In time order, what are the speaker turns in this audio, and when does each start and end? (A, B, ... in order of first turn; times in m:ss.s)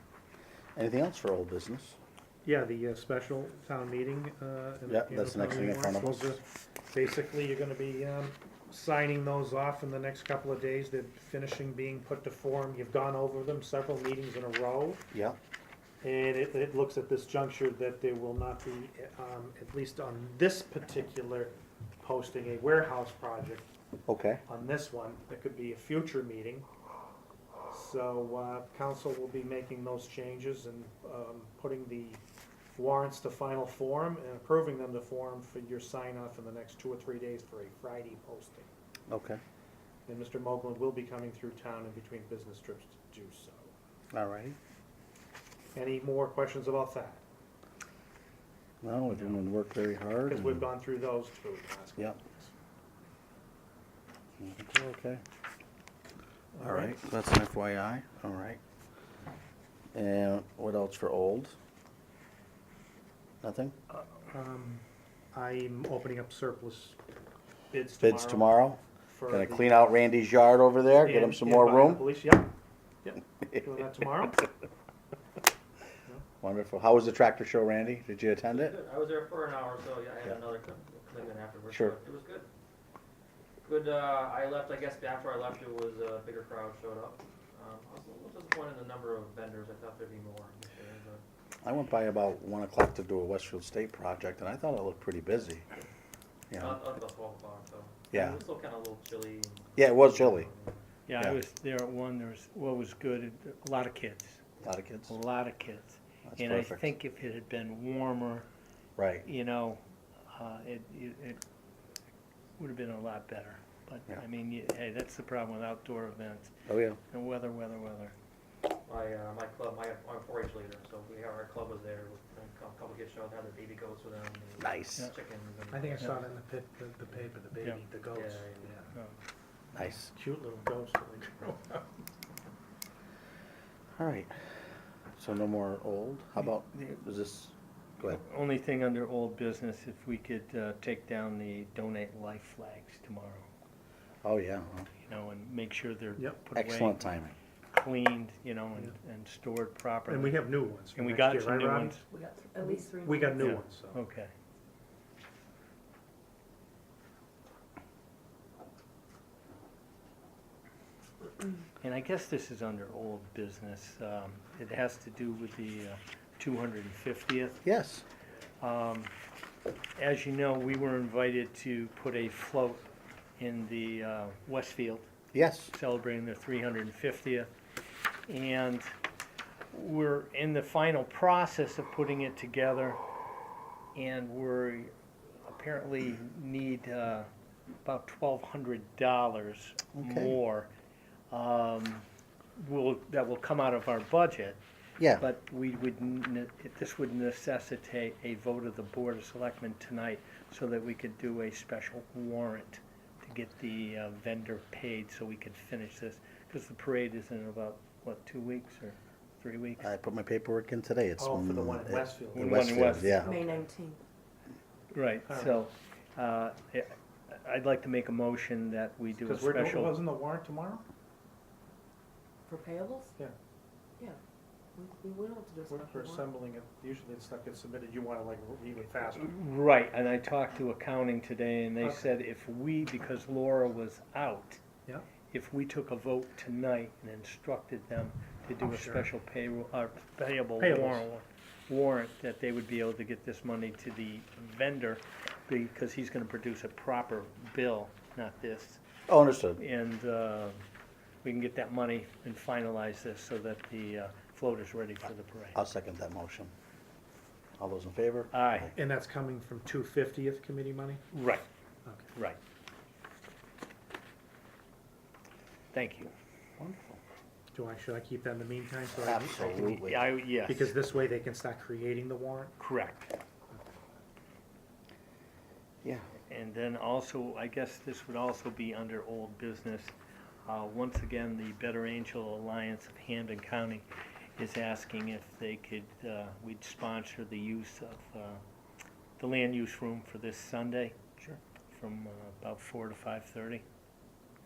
0:00.8-0:02.0 A
0:02.4-0:15.0 B
0:04.8-0:06.4 A
0:15.1-0:15.4 A
0:16.0-0:23.7 B
0:24.1-0:24.4 A
0:24.5-0:26.7 B
0:27.7-0:38.7 B
0:39.1-0:39.4 A
0:40.1-0:43.7 B
0:44.1-0:44.6 A
0:45.7-0:47.2 B
0:48.8-0:50.6 A
0:50.2-0:52.5 B
0:54.4-0:55.2 A
0:56.5-0:57.0 B
0:56.6-0:58.6 A
0:59.9-1:01.6 A
1:03.4-1:03.8 A
1:04.3-1:07.0 B
1:07.7-1:08.5 B
1:08.0-1:12.1 A
1:09.0-1:10.0 B
1:11.0-1:14.5 B
1:16.4-1:18.7 A
1:18.4-1:22.5 C
1:21.7-1:21.9 A
1:23.6-1:31.2 C
1:31.6-1:35.6 A
1:36.5-1:36.8 A
1:36.5-1:40.8 C
1:38.1-1:38.4 A
1:39.8-1:40.5 A
1:41.1-1:44.5 D
1:44.6-1:45.1 A
1:45.1-1:48.5 D
1:46.2-1:46.9 A
1:49.0-1:49.2 A
1:49.2-1:51.4 D
1:52.6-1:58.2 D
1:56.7-1:57.0 A
1:58.8-2:06.2 C
2:04.6-2:05.0 A
2:05.7-2:08.9 B
2:08.1-2:08.7 C
2:08.9-2:09.2 D
2:09.7-2:10.1 A
2:10.1-2:12.0 B
2:14.0-2:14.5 A
2:15.2-2:18.2 A
2:16.4-2:17.0 D
2:18.0-2:23.5 D
2:24.2-2:24.9 A
2:25.0-2:27.1 D
2:26.2-2:26.4 B
2:26.5-2:27.3 A
2:27.7-2:32.0 D
2:30.1-2:32.0 B
2:32.1-2:33.6 E
2:32.6-2:34.0 B
2:33.4-2:34.3 D
2:41.8-2:47.6 D
2:47.6-2:48.0 A
2:48.6-2:49.1 D
2:50.0-2:52.8 D
2:53.4-2:55.1 D
2:55.3-2:55.7 A
2:55.7-2:57.5 D
2:58.3-2:58.9 D
2:59.7-3:03.0 D
3:03.9-3:07.3 D
3:07.8-3:10.7 D
3:10.0-3:10.4 A
3:11.3-3:14.6 D
3:15.0-3:15.2 A
3:15.1-3:29.9 D
3:29.8-3:33.3 A
3:31.2-3:33.7 B
3:32.3-3:33.2 D
3:33.2-3:34.0 E
3:34.9-3:40.1 D
3:35.3-3:35.6 B
3:39.2-3:40.8 B
3:42.5-3:43.2 E
3:44.8-3:46.3 E
3:45.7-3:49.3 B
3:49.0-3:54.6 D
3:51.8-3:52.1 B
3:55.3-4:08.8 D
3:58.6-3:59.1 B
4:00.6-4:01.0 B
4:09.1-4:09.6 A
4:09.6-4:10.6 D
4:11.2-4:15.6 D
4:15.5-4:16.5 A
4:17.6-4:18.7 A
4:18.3-4:18.7 D
4:18.7-4:21.0 B
4:21.1-4:21.4 D
4:22.1-4:22.4 D
4:25.7-4:26.1 D
4:26.6-4:27.0 A
4:27.5-4:29.9 B
4:29.0-4:30.1 A
4:29.8-4:30.8 D
4:30.4-4:32.5 B
4:32.6-4:33.2 D
4:36.2-4:43.8 D
4:44.4-4:48.4 D
4:49.2-4:51.0 D
4:51.7-4:53.6 D